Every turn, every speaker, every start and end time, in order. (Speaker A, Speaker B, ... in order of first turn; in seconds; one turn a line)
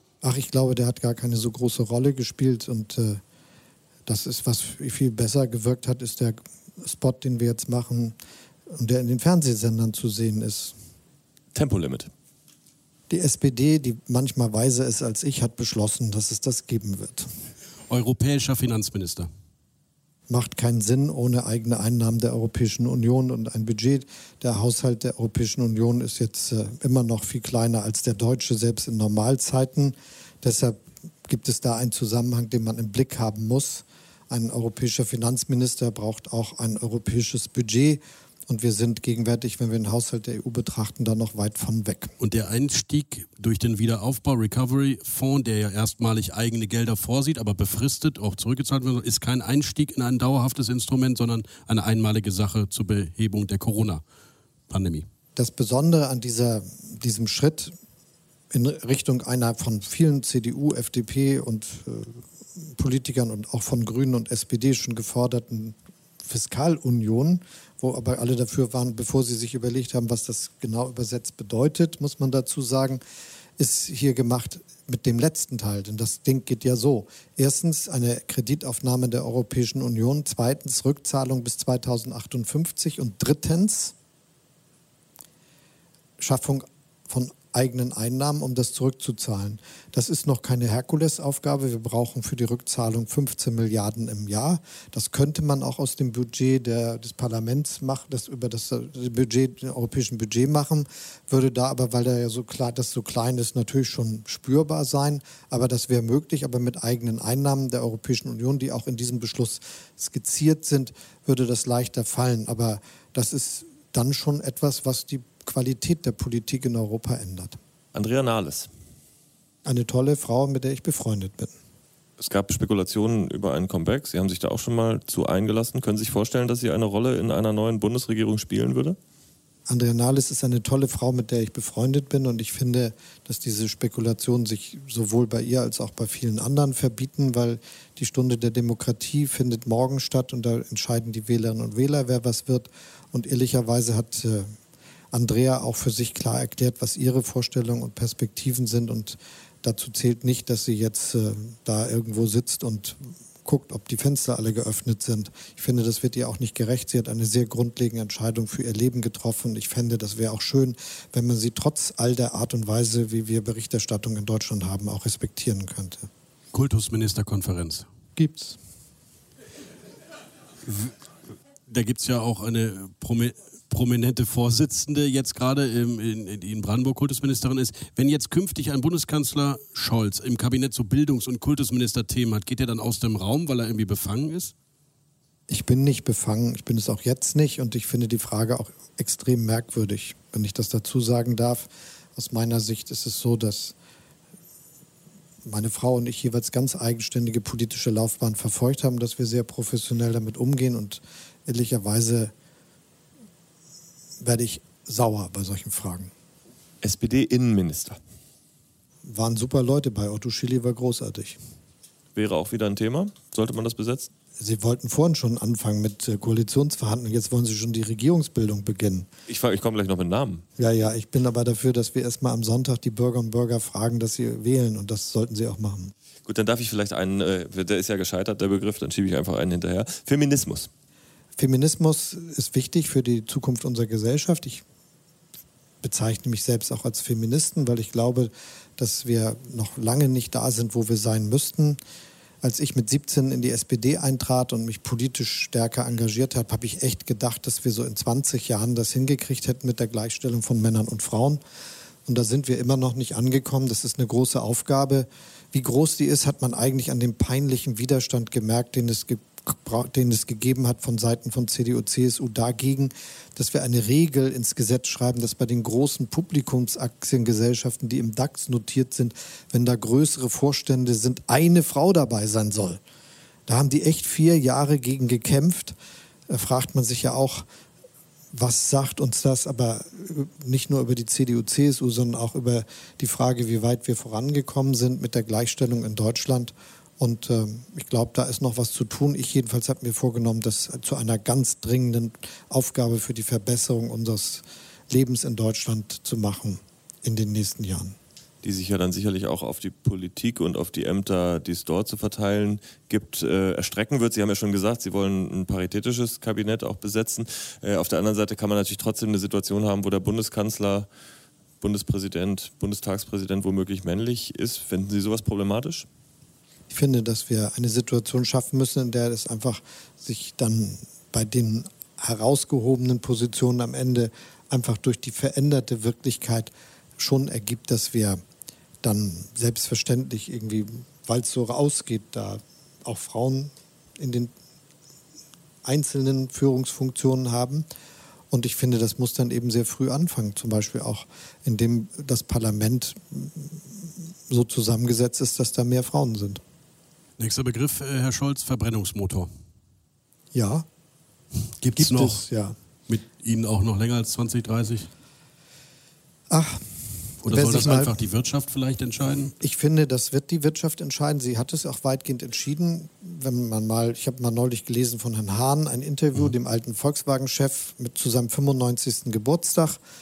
Speaker A: 0.2-3.2
Speaker A: 4.0-8.1
Speaker A: 8.7-10.7
Speaker B: 11.5-12.1
Speaker A: 13.1-17.3
Speaker C: 17.9-19.3
Speaker A: 20.3-42.1
Speaker C: 42.2-54.0
Speaker C: 54.7-55.0
Speaker A: 55.4-57.7
Speaker A: 58.5-73.0
Speaker A: 73.6-83.9
Speaker A: 86.2-117.6
Speaker B: 117.9-118.7
Speaker A: 119.6-121.5
Speaker B: 122.2-129.0
Speaker A: 129.7-144.5
Speaker A: 145.1-166.1
Speaker C: 166.5-167.8
Speaker A: 168.2-168.6
Speaker C: 170.7-170.9
Speaker C: 171.7-184.5
Speaker A: 185.5-193.7
Speaker A: 195.4-202.3
Speaker A: 204.2-206.1
Speaker B: 206.8-208.0
Speaker A: 209.0-211.4
Speaker B: 212.1-214.1
Speaker A: 214.4-219.1
Speaker B: 219.3-220.4
Speaker A: 220.6-225.9
Speaker B: 226.2-230.7
Speaker A: 231.4-234.6
Speaker A: 235.8-241.8
Speaker A: 242.4-251.4
Speaker A: 252.1-272.8
Speaker A: 273.5-275.7
Speaker A: 276.3-277.4
Speaker A: 278.3-298.0
Speaker B: 298.4-310.9
Speaker B: 311.6-315.9
Speaker A: 316.7-328.2
Speaker A: 328.8-334.3
Speaker A: 335.6-337.6
Speaker A: 338.3-346.4
Speaker C: 347.2-349.3
Speaker A: 350.3-350.7
Speaker C: 351.6-352.2
Speaker A: 351.7-352.6
Speaker C: 352.9-354.9
Speaker A: 356.3-356.6
Speaker C: 357.2-359.3
Speaker A: 357.2-357.9
Speaker A: 359.3-369.8